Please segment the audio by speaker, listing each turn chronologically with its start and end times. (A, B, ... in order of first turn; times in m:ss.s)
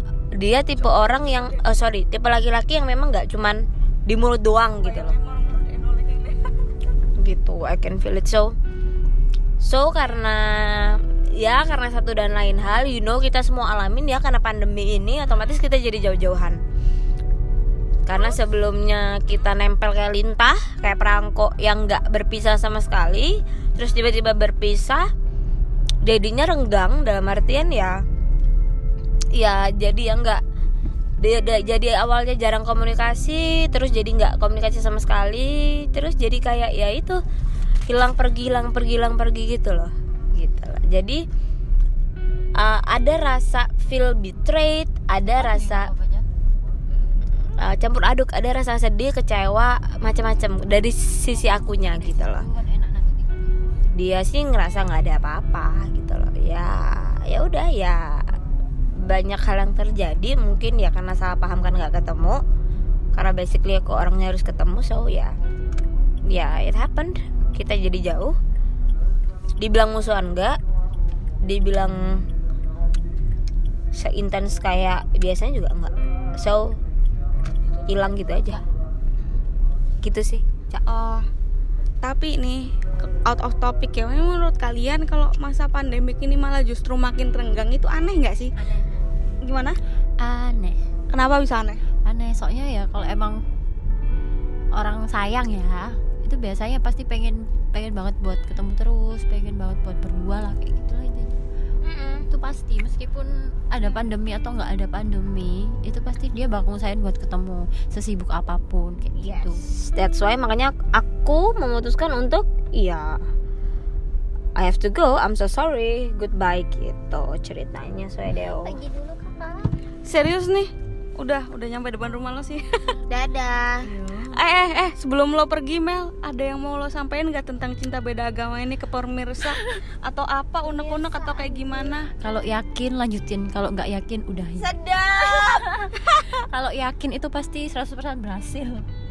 0:00.3-0:05.2 A
0:00.8-0:01.7 B
0:04.8-0:06.5 B
0:07.2-0:08.6 A
0:09.6-0:16.6 A
0:18.0-0:25.1 A
0:18.1-0:18.4 B
0:26.0-0:28.0 A
0:29.3-0:30.4 A
0:31.2-0:37.2 A
0:37.9-0:41.2 A
0:42.6-0:45.9 A
0:45.4-0:46.2 C
0:47.6-0:52.4 A
0:51.4-0:53.8 C
0:53.9-0:58.3 A
0:58.9-1:02.4 A
1:03.1-1:05.3 A
1:06.3-1:08.4 A
1:09.6-1:10.6 A
1:11.4-1:12.2 A
1:13.9-1:16.8 A
1:17.9-1:18.6 A
1:20.0-1:20.8 A
1:20.8-1:21.3 B
1:22.0-1:28.5 B
1:28.6-1:29.0 C
1:29.4-1:29.8 B
1:30.2-1:30.8 C
1:31.1-1:31.8 B
1:32.0-1:33.4 C
1:34.7-1:41.4 C
1:41.8-1:42.3 A
1:42.3-1:49.6 C
1:49.2-1:53.2 A
1:54.6-1:58.8 A
1:58.4-1:59.7 C
2:00.0-2:02.8 B
2:03.1-2:03.9 A
2:04.0-2:12.1 B
2:04.0-2:04.3 C
2:10.7-2:11.8 A
2:12.2-2:18.8 C
2:14.6-2:15.7 A